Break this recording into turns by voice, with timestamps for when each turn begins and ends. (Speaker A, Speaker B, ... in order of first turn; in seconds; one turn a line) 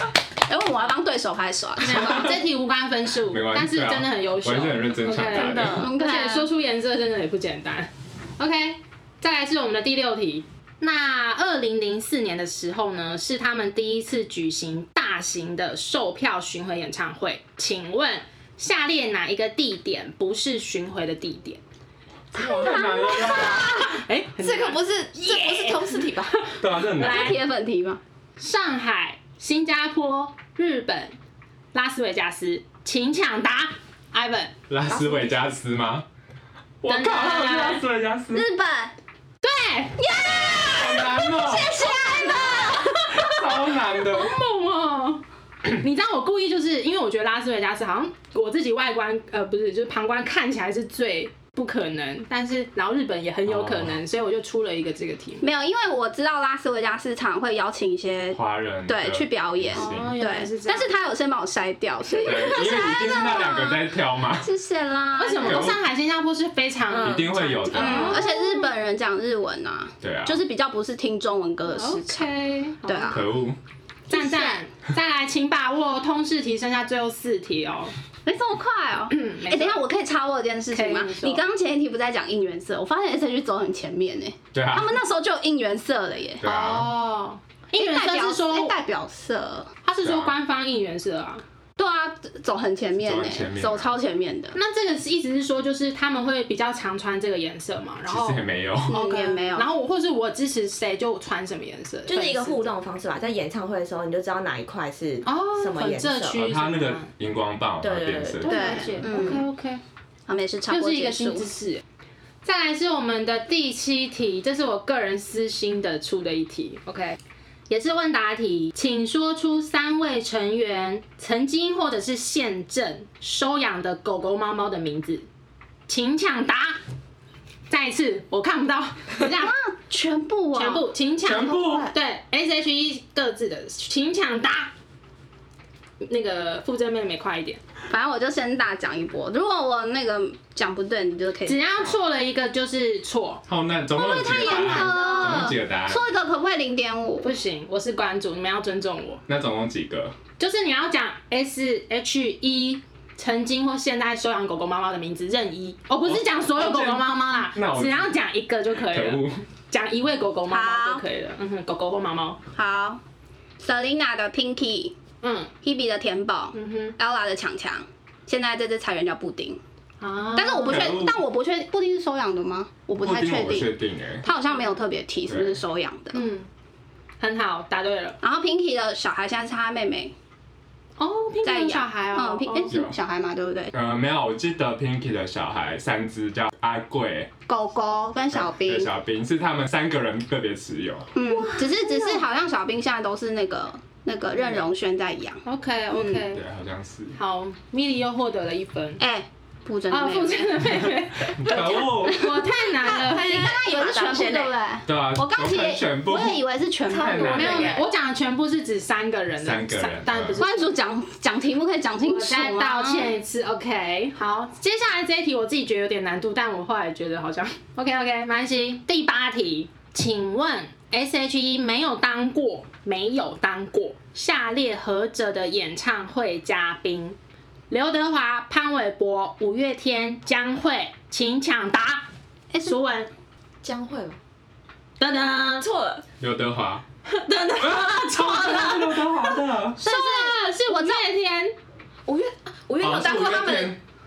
Speaker A: 0.5-2.3
Speaker B: 1.8-21.6
Speaker C: 1.9-2.3
Speaker C: 3.3-5.8
Speaker D: 5.2-5.9
Speaker A: 5.7-6.5
Speaker D: 22.4-26.4
Speaker C: 22.4-23.7
Speaker A: 22.4-23.6
Speaker B: 23.9-27.4
Speaker C: 26.6-27.4
Speaker A: 26.9-28.0
Speaker B: 28.4-31.1
Speaker B: 31.7-34.5
Speaker C: 34.7-36.1
Speaker D: 34.9-35.4
Speaker C: 36.8-38.5
Speaker B: 36.9-37.8
Speaker A: 38.3-38.9
Speaker B: 39.4-40.0
Speaker A: 40.0-43.5
Speaker C: 40.5-44.4
Speaker B: 44.1-55.4
Speaker C: 53.5-54.0
Speaker A: 55.4-65.7
Speaker C: 58.3-60.1
Speaker B: 59.8-60.9
Speaker C: 62.2-64.5
Speaker B: 65.2-68.7
Speaker C: 65.4-65.8
Speaker D: 66.9-67.4
Speaker C: 67.0-68.2
Speaker A: 67.7-72.3
Speaker C: 70.0-70.4
Speaker B: 71.7-73.3
Speaker A: 72.8-73.2
Speaker C: 73.1-73.6
Speaker A: 74.1-74.6
Speaker B: 74.1-77.9
Speaker A: 78.2-86.5
Speaker B: 79.1-79.8
Speaker B: 80.7-81.4
Speaker C: 84.5-85.0
Speaker C: 86.4-86.9
Speaker B: 86.4-88.8
Speaker A: 87.8-89.7
Speaker B: 89.8-91.4
Speaker C: 90.0-90.3
Speaker A: 91.8-94.6
Speaker C: 93.0-94.0
Speaker B: 94.5-102.6
Speaker C: 98.1-99.0
Speaker A: 98.9-99.7
Speaker D: 102.1-106.4
Speaker B: 105.2-107.1
Speaker C: 106.4-108.8
Speaker D: 107.8-109.3
Speaker B: 108.4-109.8
Speaker A: 108.5-109.5
Speaker A: 110.3-111.5
Speaker B: 110.7-111.8
Speaker B: 112.4-117.2
Speaker B: 117.7-125.2
Speaker B: 125.9-126.8
Speaker B: 127.7-129.6
Speaker A: 129.4-130.9
Speaker B: 130.6-134.7
Speaker C: 131.2-131.9
Speaker B: 136.0-137.6
Speaker A: 137.9-141.7
Speaker B: 141.5-143.4
Speaker C: 143.5-146.0
Speaker A: 143.9-147.3
Speaker B: 144.2-145.5
Speaker B: 147.2-149.2
Speaker C: 149.3-150.2
Speaker B: 150.4-162.4
Speaker C: 156.1-158.1
Speaker C: 158.9-159.4
Speaker A: 160.5-161.0
Speaker A: 162.5-163.0
Speaker A: 163.6-164.9
Speaker B: 165.2-165.5
Speaker A: 165.6-169.6
Speaker B: 166.5-166.9
Speaker B: 170.0-170.9
Speaker A: 170.4-176.3
Speaker C: 170.7-171.2
Speaker C: 173.0-174.3
Speaker C: 175.3-175.6
Speaker B: 176.1-176.5
Speaker B: 177.2-178.2
Speaker A: 178.2-180.1
Speaker B: 181.0-182.7
Speaker A: 181.4-183.7
Speaker C: 182.7-183.0
Speaker C: 183.7-187.3
Speaker A: 187.5-188.9
Speaker C: 188.3-191.1
Speaker A: 191.2-196.3
Speaker B: 191.3-192.2
Speaker B: 195.5-196.4
Speaker C: 196.3-197.2
Speaker B: 197.2-199.0
Speaker A: 199.0-200.7
Speaker B: 199.9-203.4
Speaker C: 201.3-202.4
Speaker A: 201.8-207.8
Speaker D: 202.8-204.6
Speaker C: 204.9-207.8
Speaker D: 206.9-207.8
Speaker B: 207.3-210.8
Speaker C: 209.4-210.4
Speaker A: 210.4-213.2
Speaker B: 212.1-227.2
Speaker B: 227.7-232.1
Speaker B: 232.6-233.1
Speaker D: 233.6-234.2
Speaker B: 235.0-235.7
Speaker D: 235.6-236.0
Speaker C: 236.2-236.8
Speaker B: 237.3-238.9
Speaker D: 237.3-239.1
Speaker C: 237.6-239.8
Speaker A: 239.8-241.0
Speaker B: 239.8-241.6
Speaker D: 242.1-243.7
Speaker C: 242.8-243.8
Speaker A: 243.0-243.7